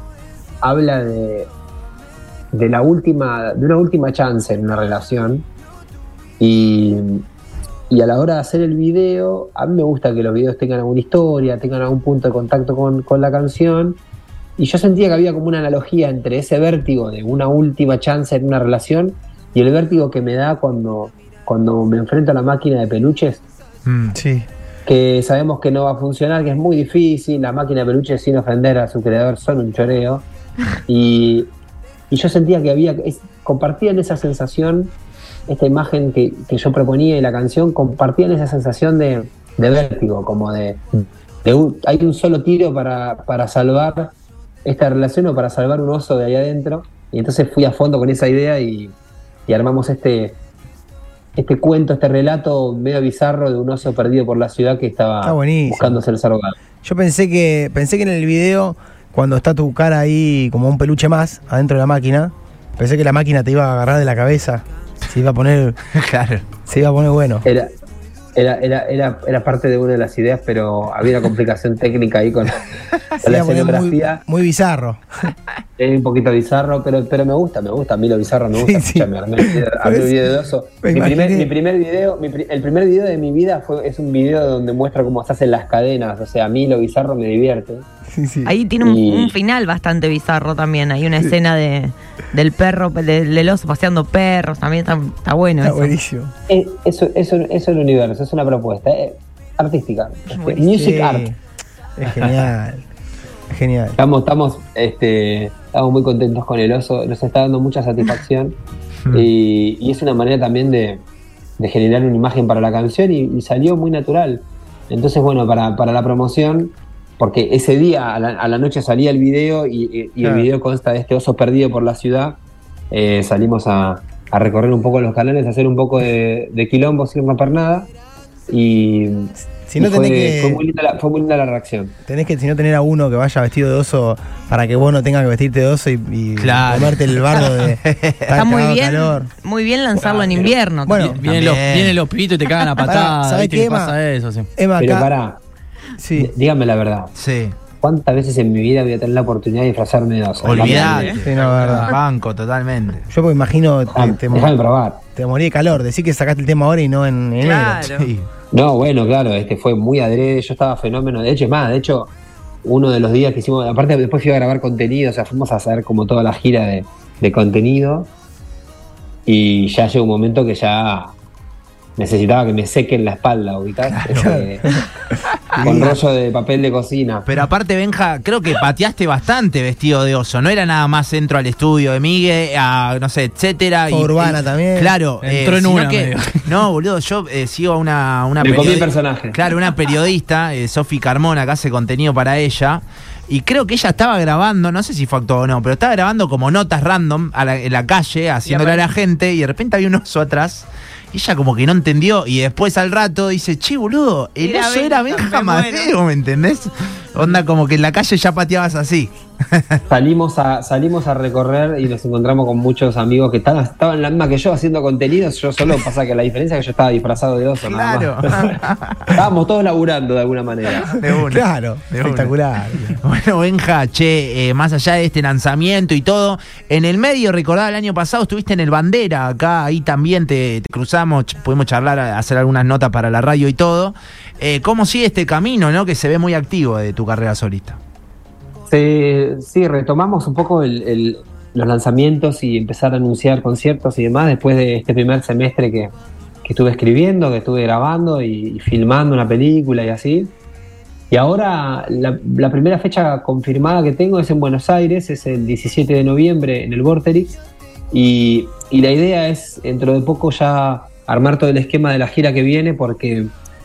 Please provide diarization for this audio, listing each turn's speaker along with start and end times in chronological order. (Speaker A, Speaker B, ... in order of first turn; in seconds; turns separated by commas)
Speaker A: 0.6-1.5, Speaker A: 2.5-5.5, Speaker A: 6.4-7.2, Speaker A: 7.9-14.0, Speaker A: 14.6-23.4, Speaker B: 23.9-24.2, Speaker C: 24.1-24.5, Speaker A: 24.9-30.2, Speaker A: 30.9-31.5, Speaker A: 32.1-34.9, Speaker A: 35.5-44.1, Speaker A: 44.6-48.9, Speaker A: 49.5-50.4, Speaker A: 51.4-56.6, Speaker C: 55.2-56.0, Speaker C: 56.8-65.8, Speaker B: 65.9-66.4, Speaker C: 66.7-67.5, Speaker A: 67.4-67.7, Speaker A: 68.4-72.7, Speaker C: 73.2-75.0, Speaker A: 73.2-74.2, Speaker A: 75.8-87.9, Speaker C: 78.5-80.2, Speaker C: 80.8-81.5, Speaker C: 88.1-88.5, Speaker D: 88.4-95.9, Speaker A: 88.8-89.4, Speaker C: 95.6-96.3, Speaker A: 96.5-101.3, Speaker D: 100.3-100.6, Speaker C: 100.7-101.4, Speaker C: 102.0-102.8, Speaker C: 103.5-104.0, Speaker A: 104.0-108.5, Speaker A: 109.1-111.0, Speaker A: 111.6-122.4, Speaker C: 120.2-120.5, Speaker A: 122.9-127.9, Speaker A: 128.5-131.9, Speaker C: 129.5-130.6, Speaker C: 132.1-139.3, Speaker B: 136.4-138.4, Speaker D: 138.4-141.1, Speaker C: 140.9-141.2, Speaker E: 140.9-144.5, Speaker B: 141.2-142.0, Speaker C: 142.8-144.0, Speaker C: 144.6-145.1, Speaker A: 144.8-145.4, Speaker C: 146.0-146.3, Speaker A: 146.2-147.1, Speaker B: 147.2-147.6, Speaker A: 147.8-151.2, Speaker B: 150.4-153.1, Speaker D: 150.5-151.2, Speaker C: 150.8-151.9, Speaker C: 153.1-154.5, Speaker A: 153.9-155.0, Speaker C: 155.2-157.9, Speaker B: 157.4-158.3, Speaker A: 158.5-162.1, Speaker A: 162.6-168.1, Speaker A: 169.2-171.2, Speaker A: 172.0-174.7, Speaker B: 173.9-174.8, Speaker C: 174.2-174.8, Speaker C: 175.6-176.0, Speaker A: 175.6-177.3, Speaker B: 177.3-209.8, Speaker C: 183.9-184.9, Speaker E: 185.2-186.7, Speaker A: 188.4-189.3, Speaker D: 198.5-198.8, Speaker D: 204.4-205.9, Speaker A: 209.9-218.6, Speaker B: 217.6-219.2, Speaker A: 219.1-220.9, Speaker B: 220.9-222.4, Speaker C: 221.1-223.0, Speaker B: 223.0-237.8, Speaker A: 238.7-245.9, Speaker A: 246.4-250.3, Speaker A: 251.1-263.3